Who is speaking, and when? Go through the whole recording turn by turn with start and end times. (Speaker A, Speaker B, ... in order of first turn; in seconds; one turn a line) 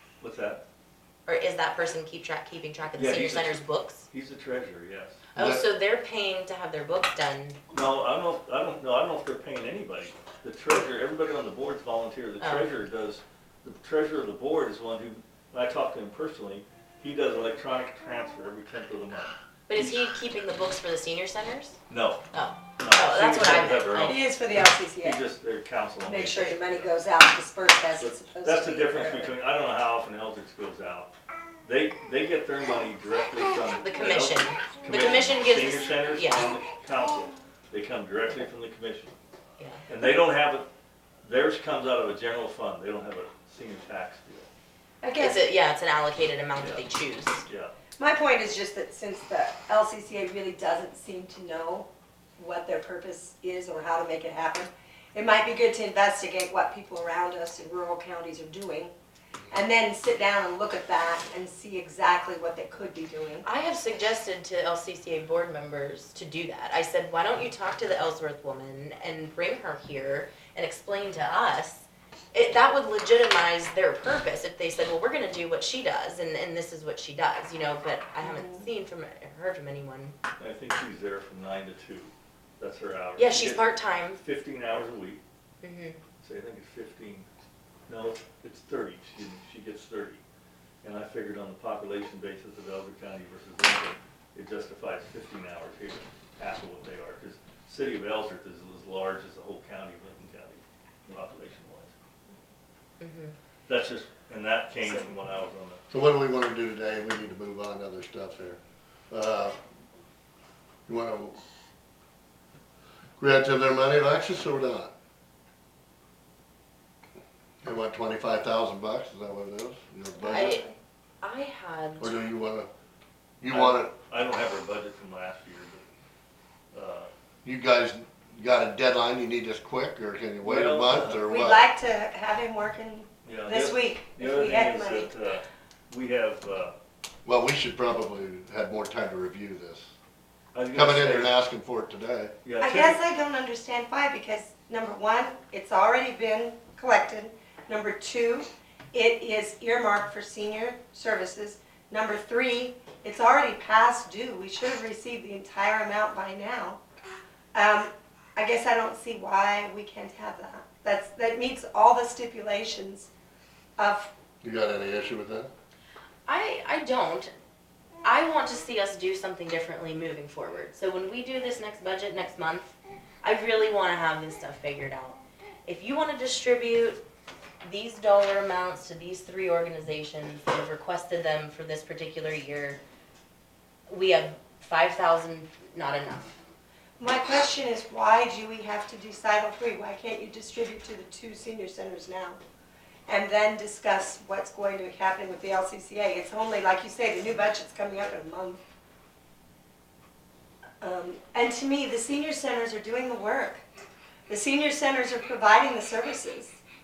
Speaker A: 0.2-0.6
Speaker B: 1.2-4.0
Speaker A: 2.9-5.2
Speaker B: 5.3-7.6
Speaker C: 5.3-5.6
Speaker A: 7.7-19.3
Speaker B: 12.4-12.7
Speaker B: 19.7-21.8
Speaker A: 21.9-22.3
Speaker B: 22.3-24.2
Speaker A: 22.8-24.2
Speaker D: 24.0-25.2
Speaker A: 25.0-26.9
Speaker D: 26.0-29.4
Speaker A: 28.0-31.1
Speaker A: 31.6-39.1
Speaker B: 33.8-36.5
Speaker A: 39.9-40.7
Speaker A: 41.2-44.5
Speaker D: 45.0-45.5
Speaker B: 45.2-47.4
Speaker A: 46.6-46.9
Speaker A: 47.5-47.7
Speaker D: 48.0-58.9
Speaker D: 59.5-63.5
Speaker B: 63.4-80.2
Speaker D: 78.2-78.7
Speaker A: 80.4-85.2
Speaker B: 83.2-84.2
Speaker B: 85.6-86.0
Speaker A: 86.2-87.3
Speaker A: 87.9-90.2
Speaker A: 90.8-101.9
Speaker B: 103.0-103.3
Speaker A: 103.7-105.8
Speaker C: 105.9-109.6
Speaker C: 110.9-111.4
Speaker C: 113.2-114.9
Speaker C: 117.6-120.6
Speaker B: 120.2-120.7
Speaker B: 121.2-122.1
Speaker C: 122.0-122.7
Speaker C: 123.4-123.9
Speaker A: 123.5-125.8
Speaker A: 126.7-127.1
Speaker C: 127.4-131.6
Speaker A: 130.4-131.2
Speaker D: 131.2-135.2
Speaker A: 133.2-136.8
Speaker C: 137.2-139.9
Speaker A: 140.5-141.4
Speaker C: 140.7-142.3
Speaker A: 142.4-143.0
Speaker D: 142.6-156.8
Speaker D: 157.5-163.1
Speaker D: 163.8-164.1
Speaker C: 164.4-165.5
Speaker B: 166.3-167.3
Speaker B: 168.0-177.0
Speaker B: 177.6-182.8
Speaker B: 183.9-186.4
Speaker D: 187.0-192.4
Speaker D: 193.1-198.6
Speaker D: 200.8-203.6
Speaker D: 204.3-206.6